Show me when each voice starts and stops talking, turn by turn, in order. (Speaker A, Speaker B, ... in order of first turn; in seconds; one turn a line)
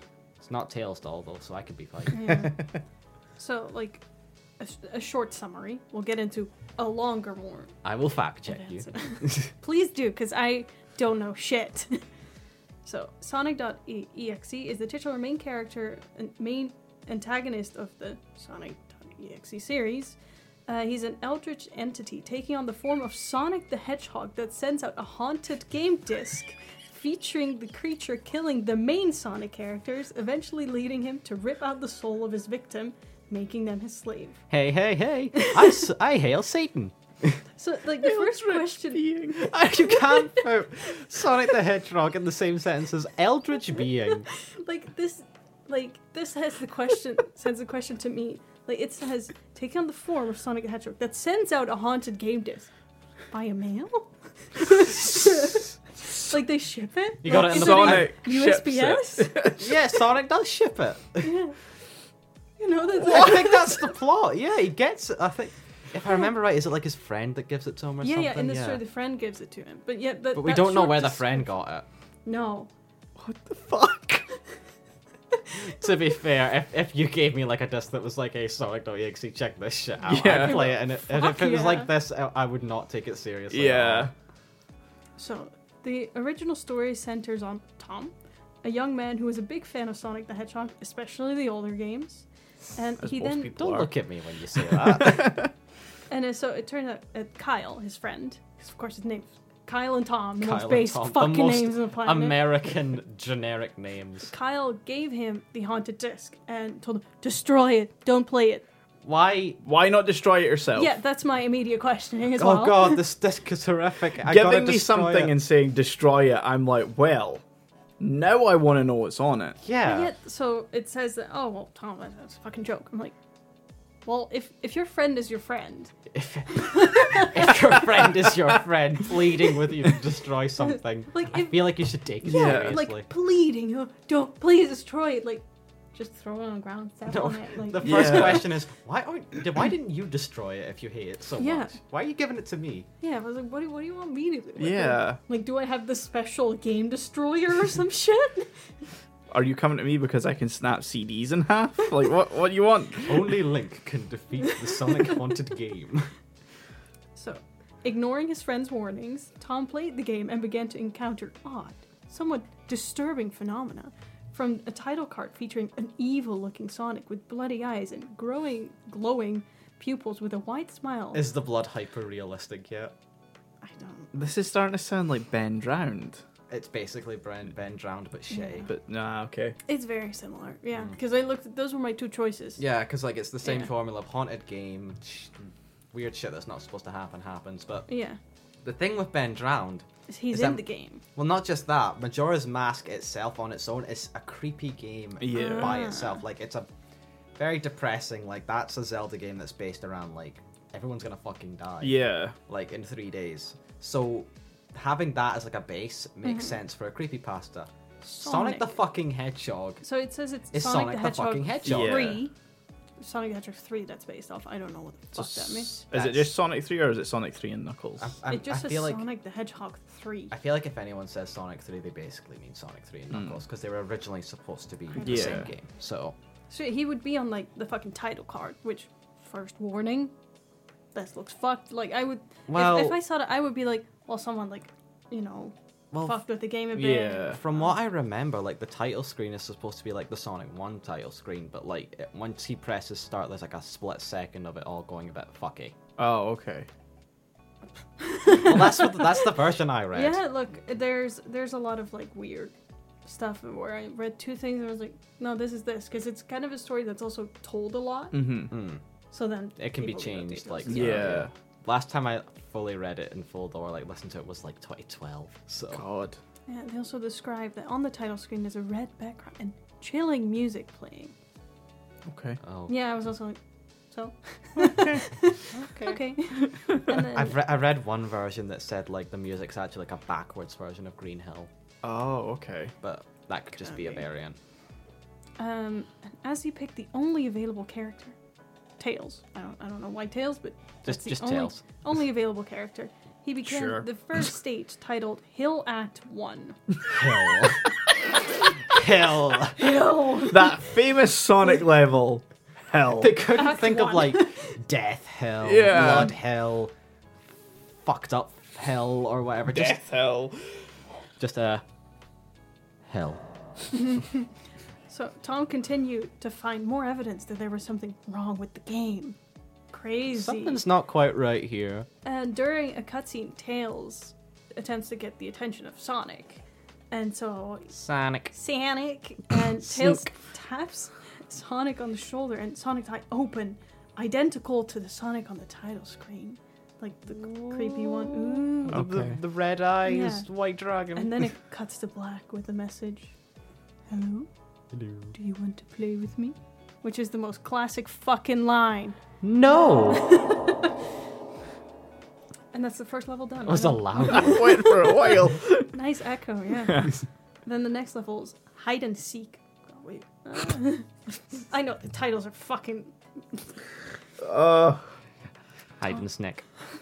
Speaker A: 0.4-2.4
Speaker B: 2.1-2.6
Speaker B: 3.4-4.0
Speaker B: 4.6-7.8
Speaker A: 7.8-9.5
Speaker B: 8.5-12.0
Speaker B: 12.8-20.1
Speaker B: 20.7-34.4
Speaker A: 34.5-37.4
Speaker B: 35.3-35.8
Speaker B: 37.6-40.4
Speaker C: 38.0-39.5
Speaker A: 39.4-44.3
Speaker B: 44.3-52.7
Speaker B: 53.3-59.3
Speaker A: 57.2-58.1
Speaker C: 57.4-59.8
Speaker A: 59.6-61.3
Speaker B: 61.2-61.5
Speaker B: 62.6-63.9
Speaker A: 63.0-68.8
Speaker B: 68.0-71.5
Speaker A: 70.3-71.8
Speaker B: 72.2-72.7
Speaker C: 73.2-74.2
Speaker A: 75.6-84.1
Speaker C: 80.0-80.8
Speaker B: 80.3-81.9
Speaker C: 83.5-84.1
Speaker B: 85.2-93.5
Speaker C: 93.0-93.9
Speaker A: 93.5-95.4
Speaker C: 94.5-95.5
Speaker B: 96.1-102.4
Speaker A: 100.4-104.3
Speaker B: 104.3-108.6
Speaker A: 109.0-109.6
Speaker C: 109.6-110.9
Speaker B: 110.7-113.0
Speaker A: 112.4-115.3
Speaker C: 114.2-117.4
Speaker C: 118.0-119.6
Speaker A: 119.6-120.1
Speaker B: 119.8-123.2
Speaker B: 124.0-125.9
Speaker A: 126.1-133.1
Speaker B: 126.5-128.0
Speaker B: 130.6-138.4
Speaker C: 132.2-132.8
Speaker A: 137.1-142.9
Speaker C: 137.8-138.5
Speaker B: 141.4-141.8
Speaker B: 143.0-148.5
Speaker C: 144.6-145.2
Speaker C: 149.3-153.4
Speaker A: 153.1-156.1
Speaker B: 157.1-171.2
Speaker A: 171.1-172.9
Speaker B: 173.6-174.1
Speaker C: 174.1-176.2
Speaker A: 176.5-178.7
Speaker B: 178.3-178.7
Speaker C: 178.7-179.6
Speaker B: 179.7-182.6
Speaker A: 182.6-185.3
Speaker B: 183.4-183.7
Speaker A: 185.9-187.9
Speaker B: 187.9-188.2
Speaker A: 188.6-196.7
Speaker B: 190.1-191.0
Speaker C: 195.2-195.8
Speaker B: 195.3-196.2
Speaker A: 197.3-207.7
Speaker C: 201.8-202.3
Speaker B: 206.2-206.6
Speaker B: 208.0-208.8
Speaker A: 208.2-209.8
Speaker B: 209.8-212.3
Speaker A: 210.5-212.2
Speaker C: 211.6-212.2
Speaker B: 213.0-215.8
Speaker C: 215.1-218.1
Speaker A: 215.9-216.3
Speaker A: 218.0-219.0
Speaker B: 218.3-220.3
Speaker A: 220.3-226.1
Speaker C: 223.1-223.4
Speaker B: 224.9-225.5
Speaker C: 225.0-225.5
Speaker B: 226.5-230.1
Speaker B: 230.9-237.6
Speaker A: 232.5-233.0
Speaker A: 235.9-236.2
Speaker C: 236.7-237.4
Speaker A: 237.3-245.7
Speaker C: 246.0-246.7
Speaker B: 248.0-249.3
Speaker A: 248.3-250.2
Speaker B: 249.9-252.5
Speaker B: 253.1-258.2
Speaker C: 258.1-258.5
Speaker A: 258.5-258.8
Speaker B: 259.1-261.1
Speaker A: 259.6-265.8
Speaker C: 260.7-261.3
Speaker C: 265.7-266.2
Speaker B: 266.5-271.1
Speaker C: 272.1-272.4
Speaker A: 272.4-272.7
Speaker B: 272.7-273.4
Speaker B: 273.9-277.3
Speaker C: 274.6-276.9
Speaker A: 277.1-281.5
Speaker C: 281.8-282.7
Speaker A: 282.8-284.4
Speaker B: 283.6-284.0
Speaker B: 285.4-288.1
Speaker B: 288.8-297.9
Speaker A: 290.9-291.6
Speaker C: 293.4-294.2
Speaker A: 296.9-297.7
Speaker A: 298.6-299.6
Speaker B: 299.5-300.6
Speaker C: 300.3-303.2
Speaker A: 302.9-306.7
Speaker B: 303.3-304.4
Speaker C: 305.4-306.1
Speaker A: 307.8-309.8
Speaker C: 309.5-310.6
Speaker A: 311.2-311.6
Speaker A: 312.9-313.2
Speaker B: 313.7-314.3
Speaker B: 314.9-319.2
Speaker B: 319.7-320.6
Speaker A: 320.1-321.9
Speaker B: 322.0-327.7
Speaker A: 327.7-328.3
Speaker B: 328.3-338.8
Speaker A: 337.1-341.3
Speaker C: 338.7-339.2
Speaker B: 339.9-340.3
Speaker B: 340.9-343.1
Speaker B: 343.9-344.3
Speaker A: 344.7-345.1
Speaker B: 345.1-349.0
Speaker A: 349.2-350.1
Speaker B: 349.7-350.8
Speaker B: 352.5-363.5
Speaker A: 353.4-354.6
Speaker C: 354.0-355.7
Speaker C: 364.2-364.9
Speaker A: 365.8-366.4